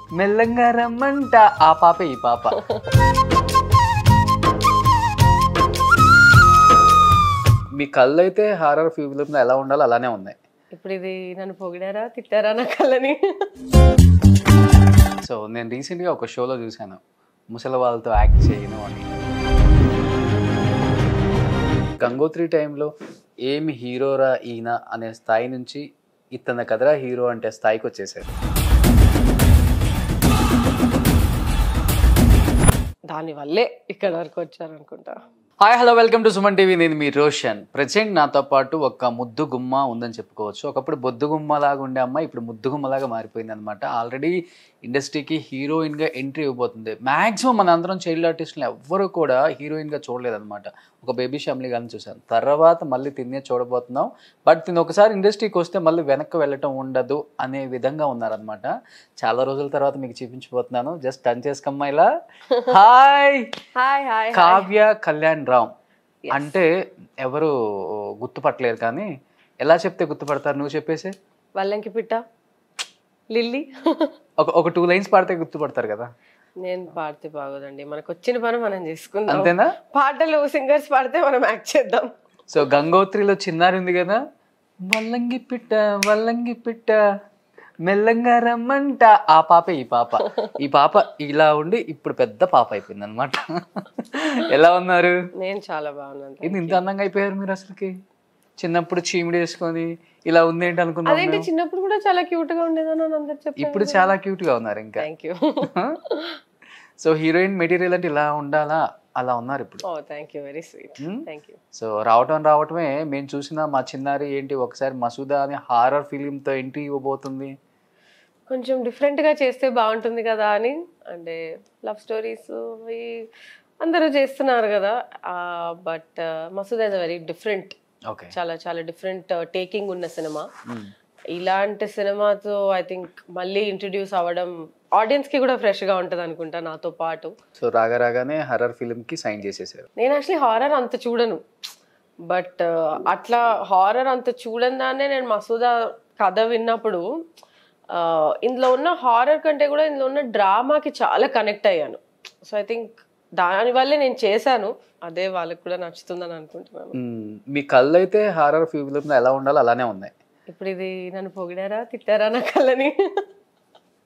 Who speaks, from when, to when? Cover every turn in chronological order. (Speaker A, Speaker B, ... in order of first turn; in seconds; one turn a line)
Speaker A: 0.2-2.6
Speaker B: 2.5-2.9
Speaker A: 7.7-10.3
Speaker B: 10.7-13.2
Speaker A: 15.2-17.0
Speaker A: 17.5-19.1
Speaker A: 22.0-22.9
Speaker A: 23.4-28.3
Speaker B: 33.1-35.2
Speaker A: 35.6-62.1
Speaker B: 62.5-62.8
Speaker A: 62.6-63.5
Speaker B: 63.8-64.7
Speaker A: 64.3-65.7
Speaker B: 66.3-66.5
Speaker A: 66.3-66.7
Speaker A: 67.2-69.1
Speaker A: 69.6-71.1
Speaker B: 71.5-72.2
Speaker B: 73.3-74.1
Speaker A: 74.4-76.1
Speaker B: 76.6-82.1
Speaker A: 79.3-79.7
Speaker A: 82.5-84.2
Speaker A: 84.9-87.0
Speaker A: 87.8-95.1
Speaker B: 95.4-96.8
Speaker A: 96.4-97.9
Speaker A: 98.6-101.5
Speaker B: 101.0-104.1
Speaker A: 103.6-105.1
Speaker B: 105.0-106.4
Speaker A: 105.6-106.0
Speaker A: 107.0-109.8
Speaker B: 109.8-111.6
Speaker A: 111.0-117.5
Speaker B: 118.5-123.3
Speaker B: 123.8-127.7
Speaker A: 128.1-128.4
Speaker B: 128.3-130.5
Speaker A: 130.7-130.9
Speaker B: 131.3-137.3
Speaker A: 137.6-139.9
Speaker B: 140.0-141.4
Speaker B: 142.2-147.0
Speaker B: 147.9-156.9
Speaker A: 156.9-160.1
Speaker B: 160.5-163.3